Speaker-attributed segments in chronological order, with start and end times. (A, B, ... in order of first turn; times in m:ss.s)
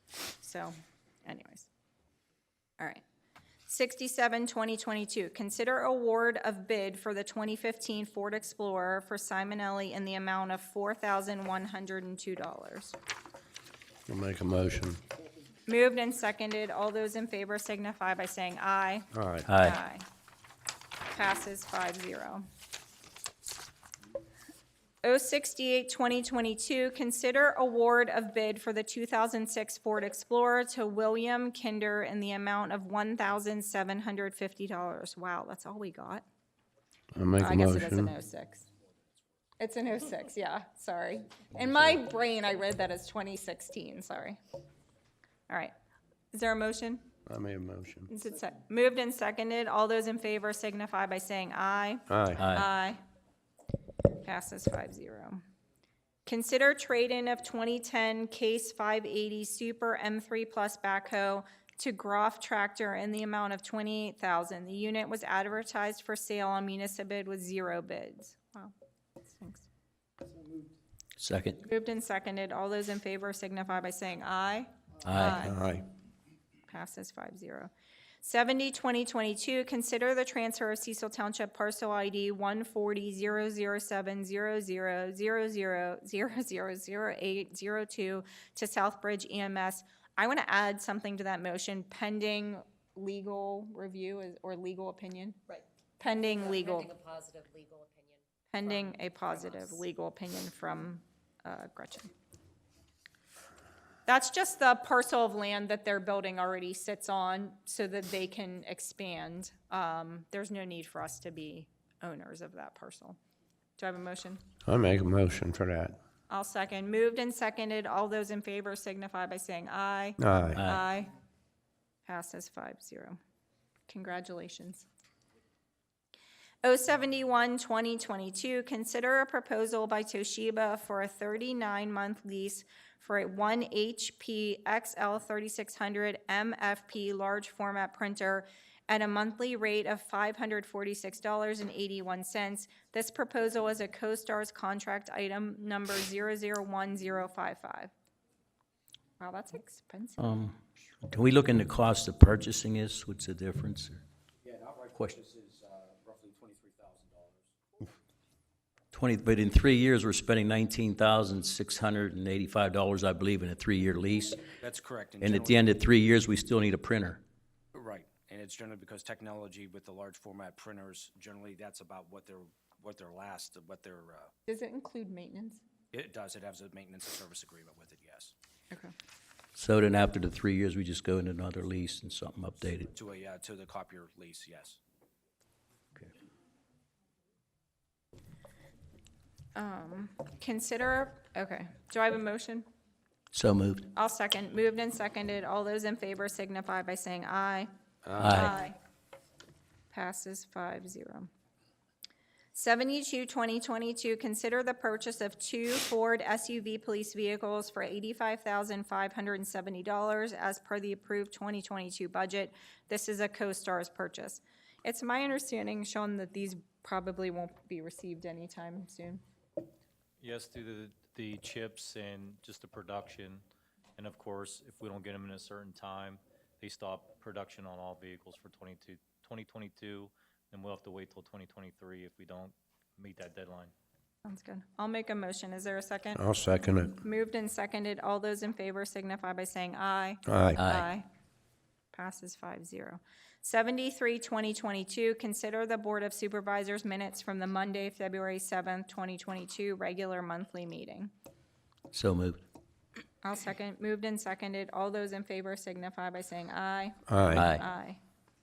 0:00.4-0:01.7 A
0:03.7-0:13.0 A
0:14.1-0:15.0 B
0:15.7-0:20.0 A
0:19.1-0:19.5 B
0:19.5-0:19.8 C
0:21.1-0:22.4 A
0:25.0-0:36.2 A
0:37.1-0:38.1 B
0:37.4-0:38.6 A
0:39.6-0:44.4 A
0:46.3-0:47.1 A
0:47.2-0:48.1 B
0:48.1-0:53.0 A
0:52.1-0:52.4 B
0:52.4-0:52.7 C
0:54.2-0:55.4 A
0:56.2-1:08.7 A
1:09.2-1:09.7 A
1:11.2-1:11.6 C
1:11.6-1:15.6 A
1:15.0-1:15.4 C
1:15.4-1:15.8 B
1:16.7-1:17.7 A
1:18.2-1:35.4 A
1:35.5-1:39.8 D
1:36.0-1:36.9 A
1:38.5-1:42.1 A
1:44.0-1:53.2 A
1:53.8-1:54.4 A
1:54.6-1:55.9 B
1:56.3-2:01.1 A
2:00.2-2:00.6 B
2:00.6-2:00.8 C
2:02.0-2:03.2 A
2:03.9-2:04.9 A
2:06.6-2:27.9 A
2:29.2-2:30.5 A
2:30.2-2:34.0 C
2:34.4-2:37.8 E
2:38.9-2:44.5 C
2:44.6-2:45.7 E
2:45.2-2:47.2 C
2:47.7-2:54.3 E
2:54.5-2:55.6 A
2:55.9-2:58.3 E
2:59.6-3:02.9 C
3:02.9-3:04.8 E
3:09.6-3:12.6 A
3:13.3-3:13.9 C
3:13.9-3:17.7 A
3:18.0-3:18.4 B
3:18.2-3:18.5 C
3:18.3-3:18.8 A
3:19.9-3:21.3 A
3:22.5-3:39.2 A
3:40.2-3:43.4 F
3:44.0-3:53.7 F
3:54.2-3:56.2 A
3:56.2-3:57.0 B
3:56.9-4:01.0 A
4:00.3-4:00.6 B
4:00.6-4:00.9 C
4:01.9-4:11.1 A
4:11.9-4:12.4 C
4:13.2-4:18.0 A
4:17.1-4:17.4 B
4:17.3-4:17.6 C